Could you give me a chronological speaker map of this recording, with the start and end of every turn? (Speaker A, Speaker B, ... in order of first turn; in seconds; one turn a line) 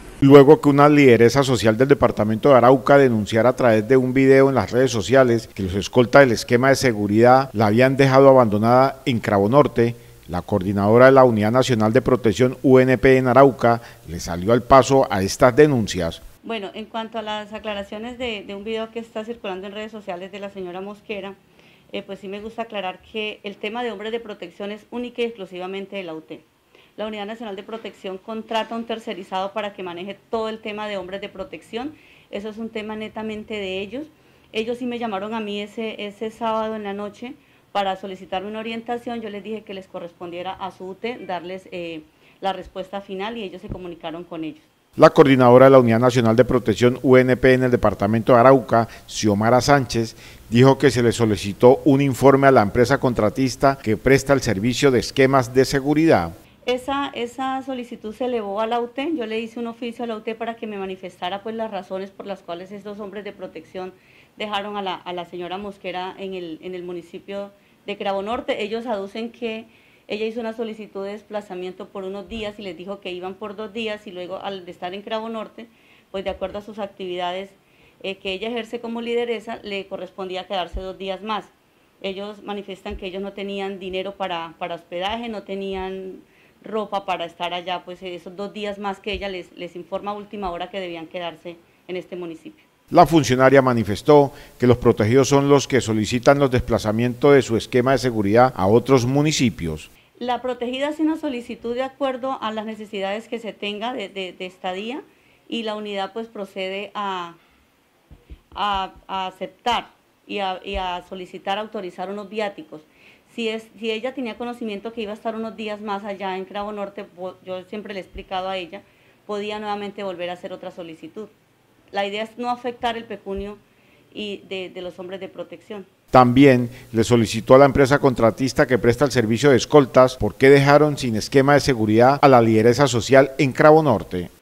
Speaker A: 0.2-16.2
Speaker B: 16.4-21.4
Speaker B: 21.9-26.4
Speaker B: 27.0-44.7
Speaker A: 45.0-56.4
Speaker B: 56.6-92.7
Speaker A: 92.9-99.9
Speaker B: 100.2-107.4
Speaker B: 108.5-121.3
Speaker B: 121.9-123.6
Speaker B: 124.1-125.9
Speaker A: 126.1-134.3